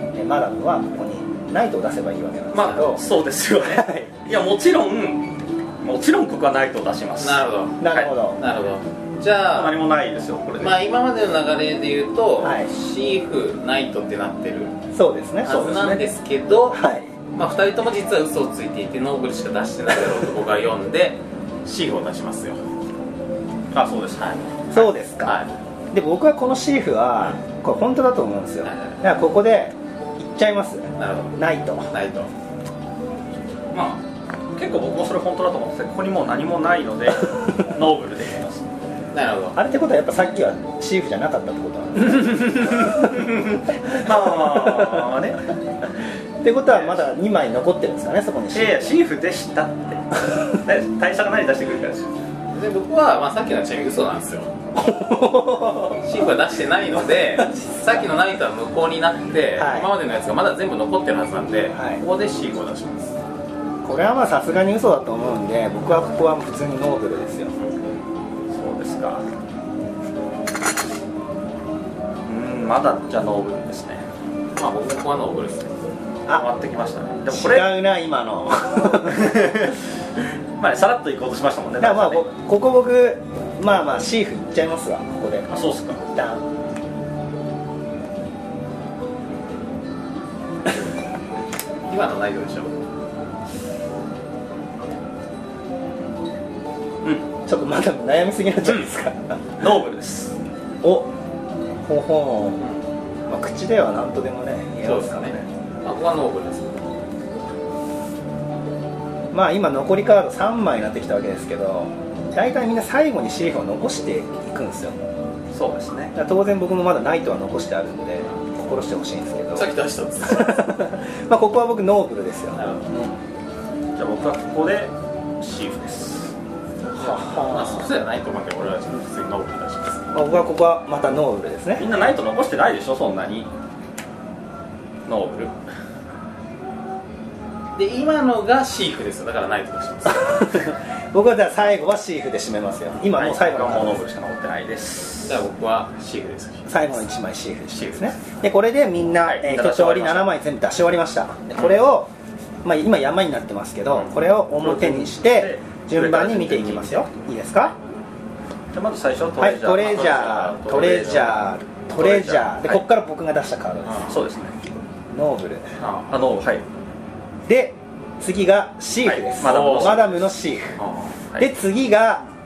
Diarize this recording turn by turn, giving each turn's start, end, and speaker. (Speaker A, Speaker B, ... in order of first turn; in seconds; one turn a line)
Speaker A: 0.1-3.0
Speaker B: 2.5-8.1
Speaker A: 3.6-4.1
Speaker C: 7.2-9.8
Speaker A: 7.8-8.4
Speaker B: 9.5-10.8
Speaker C: 10.6-14.7
Speaker A: 12.4-12.7
Speaker A: 14.9-15.7
Speaker C: 15.4-22.6
Speaker B: 15.5-16.0
Speaker A: 16.7-17.1
Speaker B: 23.7-24.3
Speaker C: 24.2-25.5
Speaker A: 24.7-25.4
Speaker A: 25.9-31.9
Speaker C: 28.6-29.0
Speaker C: 31.0-31.4
Speaker C: 31.9-32.3
Speaker B: 33.7-34.0
Speaker B: 34.5-38.6
Speaker C: 39.1-39.6
Speaker A: 39.6-45.2
Speaker B: 42.5-45.4
Speaker A: 46.4-49.0
Speaker B: 46.7-47.0
Speaker B: 48.5-52.1
Speaker C: 52.5-54.5
Speaker A: 54.7-56.0
Speaker C: 56.0-63.1
Speaker A: 57.2-58.0
Speaker A: 59.6-59.9
Speaker A: 61.7-62.0
Speaker A: 63.8-67.5
Speaker B: 68.5-69.2
Speaker B: 72.3-74.1
Speaker C: 74.6-75.7
Speaker B: 76.3-77.7
Speaker A: 77.3-79.5
Speaker B: 78.9-79.8
Speaker B: 80.6-82.3
Speaker A: 81.8-85.5
Speaker B: 85.5-86.0
Speaker A: 86.0-86.4
Speaker C: 91.9-92.7
Speaker A: 97.5-99.7
Speaker B: 99.6-100.4
Speaker A: 100.8-101.1
Speaker A: 101.8-102.6
Speaker A: 103.3-105.5
Speaker C: 104.8-106.9
Speaker A: 109.3-115.0
Speaker B: 115.5-116.1
Speaker A: 116.1-122.6
Speaker C: 119.5-120.6
Speaker C: 122.5-122.9
Speaker B: 124.0-126.3
Speaker C: 126.9-130.1
Speaker A: 126.9-127.9
Speaker A: 130.1-131.9
Speaker B: 131.8-133.5
Speaker B: 135.1-135.6
Speaker C: 137.8-140.5
Speaker A: 140.1-144.0
Speaker B: 143.1-145.4
Speaker C: 145.3-147.0
Speaker A: 146.7-152.1
Speaker B: 149.2-150.3
Speaker A: 152.6-157.7
Speaker B: 154.5-157.1
Speaker B: 158.7-161.3
Speaker A: 159.4-164.2
Speaker C: 159.7-161.4
Speaker B: 161.9-162.8
Speaker C: 163.9-164.1
Speaker B: 164.1-164.6
Speaker A: 165.1-165.7
Speaker C: 165.8-166.1
Speaker B: 166.1-166.6
Speaker A: 167.5-170.8
Speaker B: 169.0-170.3
Speaker C: 169.4-170.0
Speaker C: 170.8-171.2
Speaker A: 171.4-172.3